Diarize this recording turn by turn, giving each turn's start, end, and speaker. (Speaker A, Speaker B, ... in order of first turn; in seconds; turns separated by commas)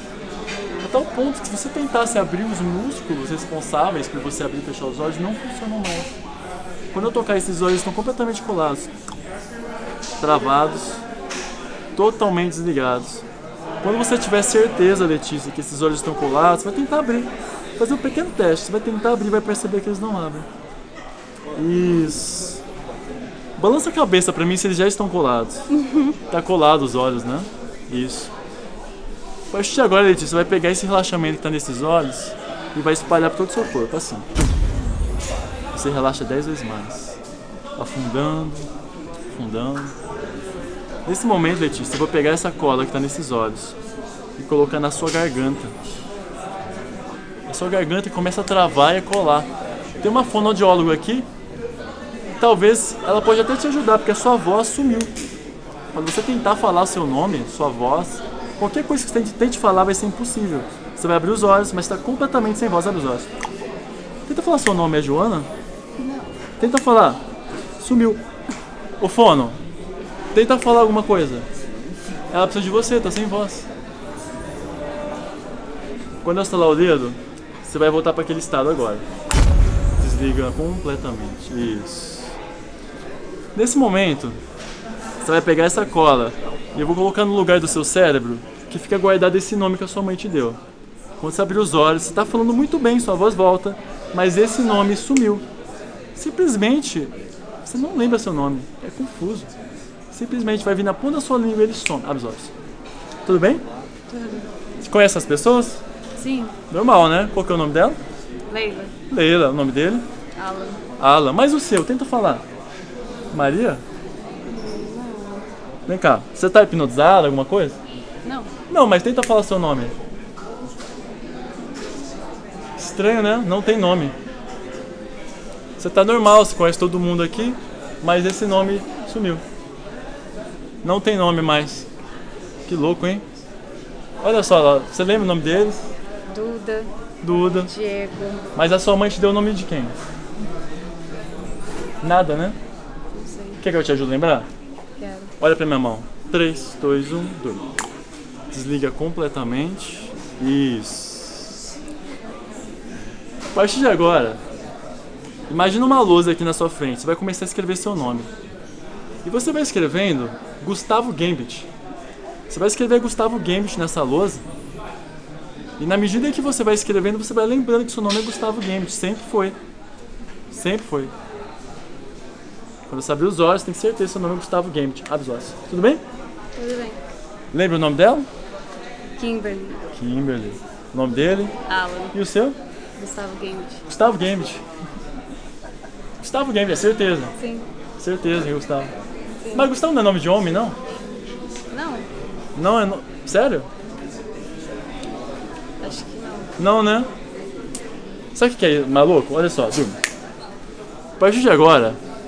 Speaker A: 0.8-6.2, Speaker A: 6.9-8.9, Speaker A: 10.2-11.0, Speaker A: 11.9-13.2, Speaker A: 13.8-20.5, Speaker A: 21.5-22.6, Speaker A: 23.6-25.7, Speaker B: 25.7-26.2, Speaker A: 26.3-28.3, Speaker A: 29.5-34.3, Speaker A: 35.7-37.2, Speaker A: 37.8-38.7, Speaker A: 39.3-39.9, Speaker A: 41.0-43.8, Speaker A: 44.4-45.8, Speaker A: 47.5-49.5, Speaker A: 50.0-51.3, Speaker A: 52.4-55.1, Speaker A: 55.9-63.3, Speaker A: 64.3-65.5, Speaker B: 66.0-66.3, Speaker A: 66.6-67.2, Speaker A: 67.8-68.2, Speaker A: 69.0-69.6, Speaker A: 70.3-71.5, Speaker A: 72.3-73.7, Speaker A: 76.2-79.0, Speaker A: 80.0-82.3, Speaker A: 83.5-84.4, Speaker A: 85.2-90.6, Speaker A: 91.2-95.5, Speaker A: 96.2-99.5, Speaker A: 100.1-102.5, Speaker A: 103.2-103.6, Speaker B: 104.1-104.5, Speaker A: 104.8-105.8, Speaker B: 106.2-106.5, Speaker A: 106.7-108.0, Speaker B: 108.5-108.9, Speaker A: 109.1-110.0, Speaker B: 110.3-110.8, Speaker A: 111.0-112.4, Speaker A: 113.3-113.8, Speaker B: 114.5-115.4, Speaker A: 115.9-117.8, Speaker B: 118.2-118.5, Speaker A: 118.7-119.9, Speaker A: 122.8-124.2, Speaker A: 125.8-129.4, Speaker A: 130.8-131.9, Speaker A: 132.7-133.2, Speaker A: 134.2-135.8, Speaker B: 136.3-136.9, Speaker A: 137.2-137.7, Speaker B: 137.6-138.5, Speaker A: 138.5-139.9, Speaker A: 142.0-142.6, Speaker B: 143.1-143.6, Speaker A: 143.6-144.5, Speaker B: 145.0-145.3, Speaker A: 145.4-147.7, Speaker A: 148.5-151.7, Speaker A: 153.5-154.4, Speaker A: 155.5-158.3, Speaker A: 159.2-161.7, Speaker A: 162.5-164.4, Speaker A: 165.8-169.6, Speaker A: 170.5-171.1, Speaker A: 172.9-176.0, Speaker B: 176.6-177.0, Speaker A: 177.5-178.3, Speaker B: 179.2-179.9, Speaker A: 179.9-181.5, Speaker B: 181.7-182.1, Speaker A: 182.1-182.6, Speaker B: 183.0-183.8, Speaker A: 183.9-184.6, Speaker A: 186.2-187.3, Speaker B: 187.4-187.7, Speaker A: 188.0-188.9, Speaker B: 189.4-189.7, Speaker A: 189.5-190.8, Speaker B: 191.7-192.1, Speaker A: 192.6-193.7, Speaker B: 195.8-196.5, Speaker A: 196.6-197.1, Speaker A: 198.3-200.0, Speaker A: 201.2-202.0